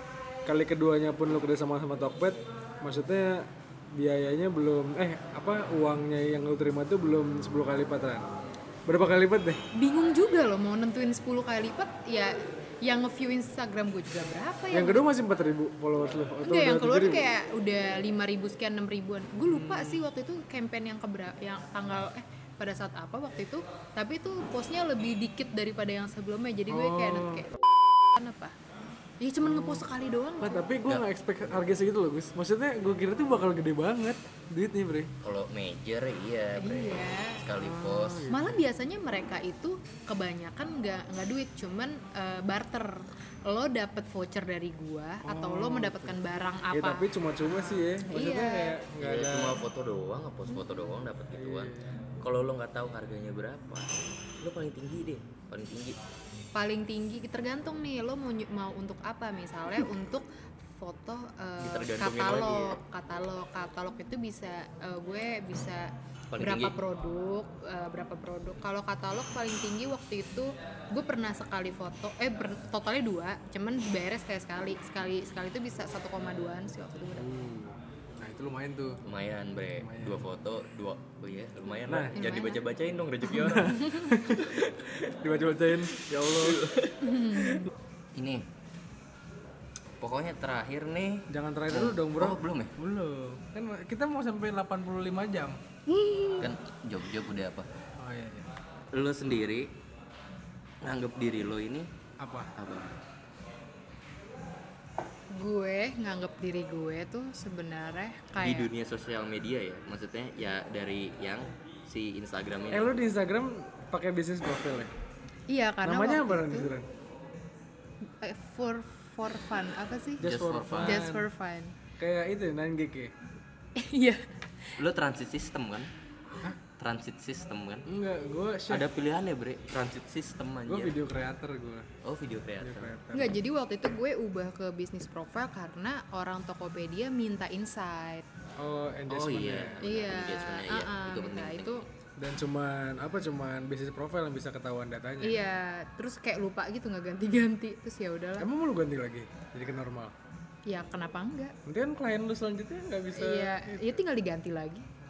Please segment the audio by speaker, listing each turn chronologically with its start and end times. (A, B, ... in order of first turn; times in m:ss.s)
0:00.4-0:08.3 A
0:08.9-0:09.6 A
0:09.7-0:15.1 B
0:14.7-0:17.3 A
0:16.4-0:28.6 B
0:19.5-0:20.0 A
0:26.7-0:27.5 A
0:29.2-0:30.7 B
0:29.4-0:29.8 A
0:30.4-0:35.1 A
0:35.2-0:38.3 C
0:36.6-0:37.4 B
0:37.6-0:38.6 A
0:38.3-0:48.8 B
0:45.2-0:46.2 A
0:46.7-0:49.6 A
0:49.0-0:56.0 C
0:51.3-0:52.0 A
0:56.6-1:17.3 B
1:01.6-1:02.8 C
1:06.3-1:06.8 C
1:17.2-1:19.0 A
1:19.0-1:25.1 C
1:19.8-1:20.2 A
1:21.9-1:22.2 A
1:22.1-1:22.6 B
1:23.3-1:24.6 A
1:23.5-1:24.2 B
1:25.2-1:26.6 A
1:25.7-1:28.4 C
1:27.0-1:27.7 B
1:30.0-1:32.7 C
1:31.3-1:35.6 A
1:35.9-1:36.5 B
1:36.4-1:37.7 C
1:38.0-1:38.5 A
1:38.9-1:39.7 C
1:40.8-1:41.9 C
1:42.2-1:42.5 A
1:42.6-1:42.9 C
1:45.3-1:48.7 B
1:48.4-1:52.9 C
1:52.7-1:54.9 A
1:55.5-1:56.7 B
1:55.8-1:56.9 A
1:58.2-2:00.3 B
2:00.2-2:01.1 C
2:00.2-2:01.3 A
2:00.8-2:01.8 B
2:02.0-2:03.1 A
2:03.8-2:04.8 B
2:04.8-2:05.9 C
2:06.8-2:07.9 C
2:07.9-2:08.9 A
2:08.7-2:11.0 C
2:10.7-2:11.9 A
2:12.0-2:12.9 C
2:12.6-2:13.4 A
2:13.1-2:18.3 B
2:18.6-2:19.8 A
2:19.1-2:21.8 C
2:19.8-2:21.8 B
2:22.2-2:25.4 A
2:25.2-2:28.5 B
2:28.4-2:30.1 A
2:30.7-2:31.6 B
2:31.6-2:34.0 A
2:33.1-2:34.9 B